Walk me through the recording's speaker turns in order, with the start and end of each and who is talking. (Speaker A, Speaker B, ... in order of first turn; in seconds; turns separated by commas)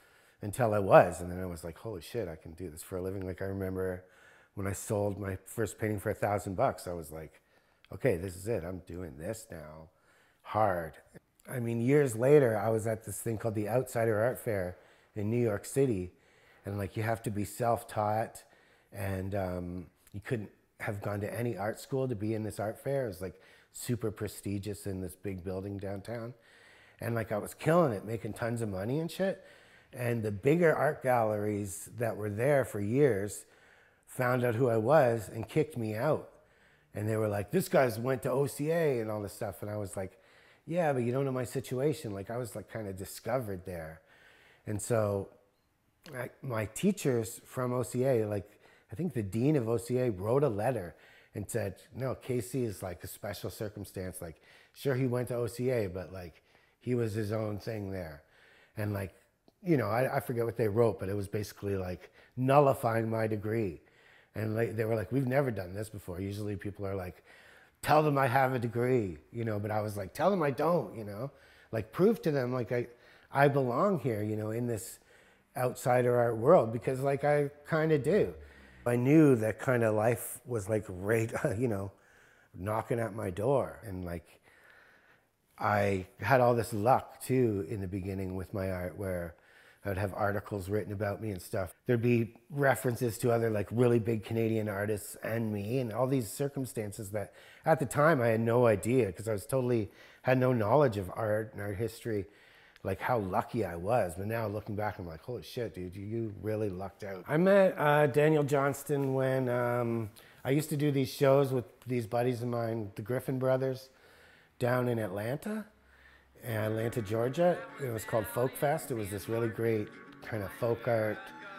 Speaker A: 0.4-9.9, Speaker A: 10.4-26.3, Speaker A: 27.0-33.5, Speaker A: 34.1-36.3, Speaker A: 36.9-44.0, Speaker A: 44.6-45.3, Speaker A: 46.1-58.2, Speaker A: 58.8-63.8, Speaker A: 64.3-67.2, Speaker A: 67.8-75.0, Speaker A: 75.5-81.9, Speaker A: 82.5-84.4, Speaker A: 85.6-102.3, Speaker A: 102.8-113.9, Speaker A: 114.6-115.7, Speaker A: 116.4-121.3